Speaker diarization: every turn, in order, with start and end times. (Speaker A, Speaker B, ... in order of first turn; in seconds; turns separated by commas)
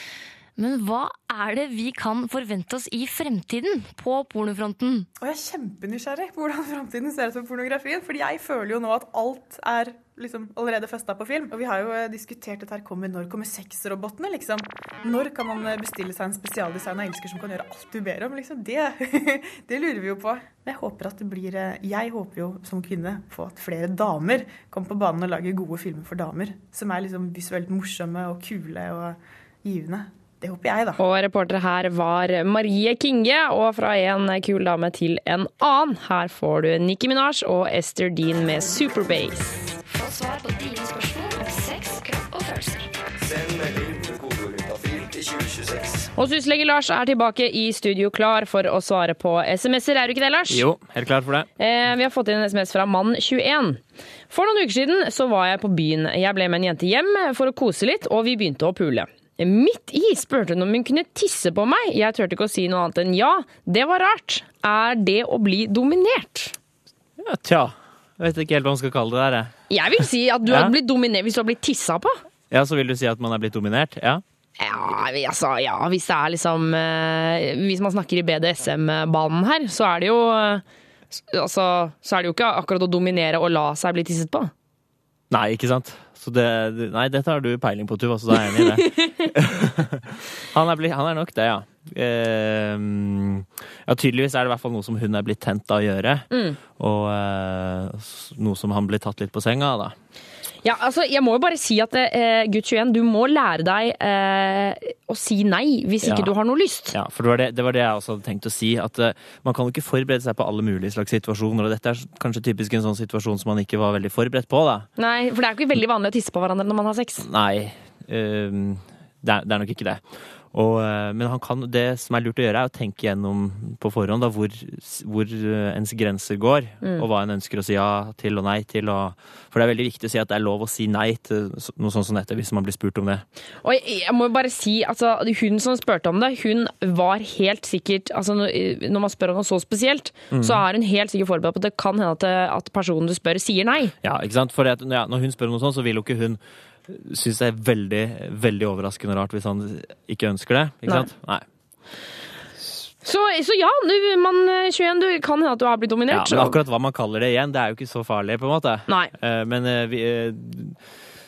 Speaker A: 0.6-5.1, Speaker B: 5.2-31.0, Speaker C: 31.0-39.7, Speaker D: 39.9-42.9, Speaker E: 43.2-46.1, Speaker C: 46.2-50.6, Speaker F: 50.5-51.5, Speaker C: 51.6-66.5, Speaker F: 67.2-69.5, Speaker C: 69.7-72.2, Speaker F: 70.5-70.7, Speaker F: 72.5-74.2, Speaker C: 74.6-80.6, Speaker C: 81.3-84.5, Speaker F: 85.3-100.0, Speaker C: 88.5-89.3, Speaker C: 96.3-96.6, Speaker C: 100.6-107.0, Speaker F: 106.0-106.3, Speaker F: 106.9-114.9, Speaker C: 115.0-117.2, Speaker F: 117.2-133.2, Speaker C: 133.6-143.9, Speaker F: 140.3-140.6, Speaker F: 144.0-151.4, Speaker C: 153.0-156.6, Speaker F: 156.1-160.8